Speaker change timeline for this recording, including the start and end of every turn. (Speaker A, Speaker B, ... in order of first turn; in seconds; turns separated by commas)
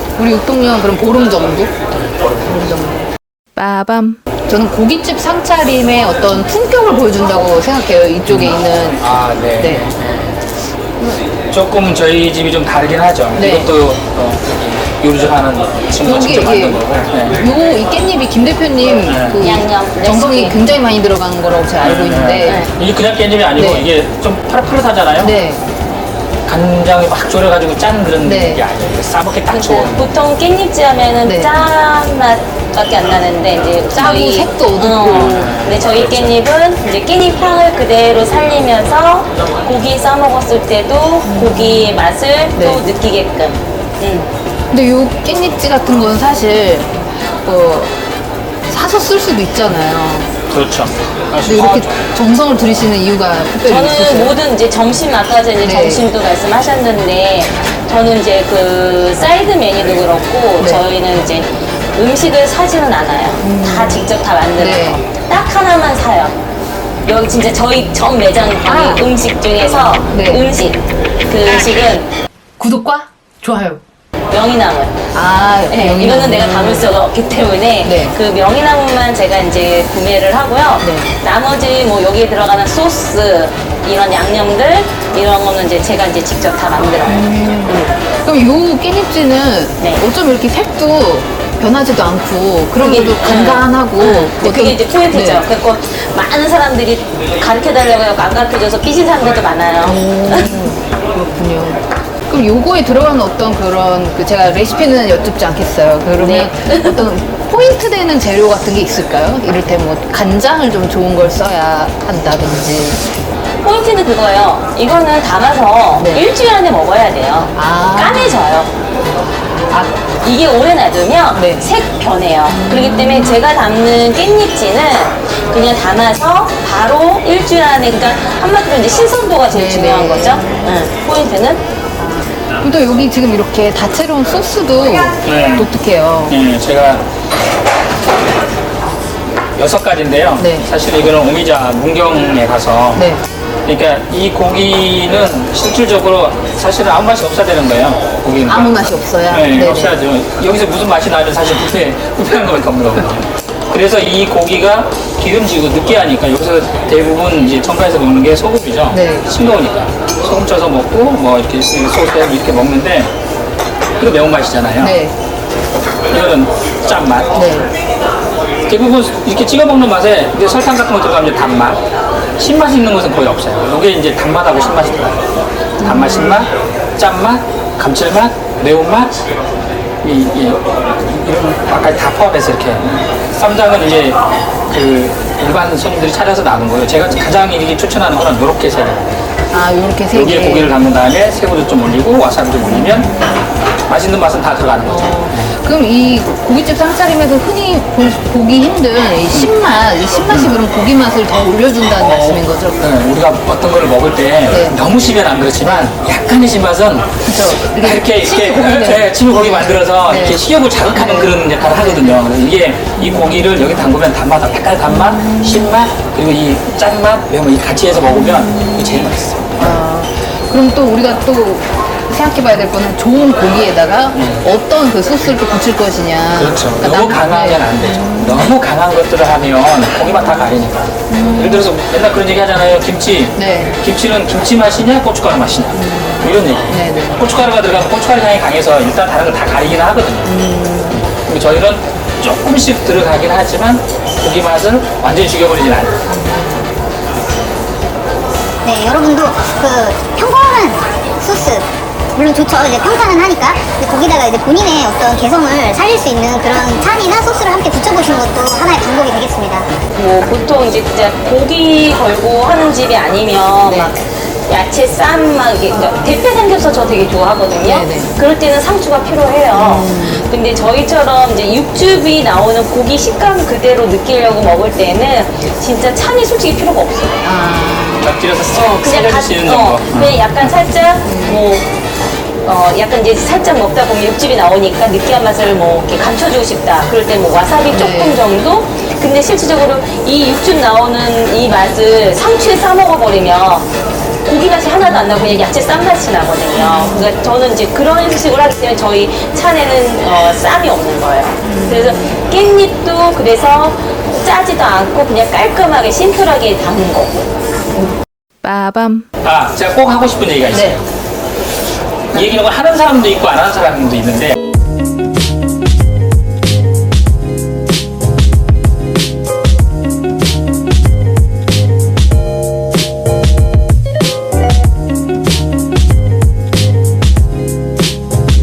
Speaker A: 0.2-1.7, Speaker B: 1.9-2.5, Speaker A: 2.5-9.0, Speaker B: 8.3-10.5, Speaker A: 9.6-9.9, Speaker B: 11.5-17.4, Speaker A: 13.3-13.7, Speaker A: 16.0-16.8, Speaker A: 17.3-22.6, Speaker B: 19.1-19.6, Speaker C: 19.4-20.6, Speaker B: 21.8-25.4, Speaker C: 22.4-22.7, Speaker A: 23.6-23.9, Speaker A: 25.2-25.6, Speaker B: 26.5-30.1, Speaker A: 28.2-28.6, Speaker C: 29.5-44.3, Speaker A: 31.2-31.6, Speaker A: 34.0-35.4, Speaker B: 35.1-36.4, Speaker A: 41.2-42.0, Speaker A: 42.6-42.8, Speaker A: 44.7-48.0, Speaker A: 48.7-50.3, Speaker B: 50.5-51.9, Speaker A: 51.4-54.4, Speaker C: 53.6-66.4, Speaker A: 55.6-56.1, Speaker A: 63.4-65.0, Speaker C: 67.0-72.1, Speaker A: 68.7-69.0, Speaker A: 70.1-70.5, Speaker A: 72.6-73.8, Speaker C: 74.3-75.0, Speaker A: 75.1-76.9, Speaker C: 75.7-87.2, Speaker A: 77.8-78.2, Speaker A: 80.8-81.1, Speaker A: 87.1-95.4, Speaker C: 89.8-90.0, Speaker C: 92.8-100.7, Speaker A: 99.8-113.1, Speaker C: 106.2-107.1, Speaker C: 113.6-118.7, Speaker A: 117.5-118.4, Speaker A: 119.7-120.0, Speaker C: 120.2-131.6, Speaker A: 121.3-121.7, Speaker A: 122.5-123.4, Speaker A: 129.5-130.8, Speaker A: 132.0-136.4, Speaker B: 135.2-135.7, Speaker B: 136.3-137.1, Speaker B: 139.6-143.1, Speaker A: 140.4-140.7, Speaker A: 142.9-143.2, Speaker B: 143.7-163.1, Speaker A: 148.5-150.0, Speaker A: 158.9-159.3, Speaker B: 164.0-165.0, Speaker A: 164.8-165.1, Speaker B: 166.1-167.7, Speaker A: 167.3-167.7, Speaker B: 168.7-171.8, Speaker B: 172.4-179.2, Speaker A: 175.8-176.5, Speaker B: 180.0-189.2, Speaker A: 189.5-190.7, Speaker B: 190.1-193.1, Speaker A: 192.7-193.3, Speaker B: 193.9-195.6, Speaker A: 194.9-202.8, Speaker B: 200.3-200.6, Speaker B: 202.0-219.8, Speaker A: 204.5-204.8, Speaker A: 207.2-210.4, Speaker A: 210.9-212.2, Speaker A: 213.0-213.7, Speaker A: 214.9-215.7, Speaker A: 218.1-228.4, Speaker B: 224.2-224.4, Speaker B: 226.4-240.3, Speaker A: 231.1-231.7, Speaker A: 233.4-233.7, Speaker A: 235.8-237.3, Speaker A: 240.3-241.0, Speaker B: 240.9-246.0, Speaker A: 246.1-246.7, Speaker D: 248.7-259.7, Speaker C: 259.9-277.2, Speaker A: 263.7-263.9, Speaker A: 267.6-268.2, Speaker A: 269.5-270.2, Speaker A: 277.2-278.1, Speaker B: 278.0-280.3, Speaker C: 278.5-281.7, Speaker A: 281.0-281.5, Speaker C: 282.4-293.7, Speaker A: 287.7-288.2, Speaker C: 294.2-307.3, Speaker A: 294.9-295.4, Speaker A: 296.6-297.1, Speaker A: 301.4-302.1, Speaker A: 308.4-309.1, Speaker B: 309.2-310.8, Speaker A: 310.5-310.8, Speaker B: 312.1-314.4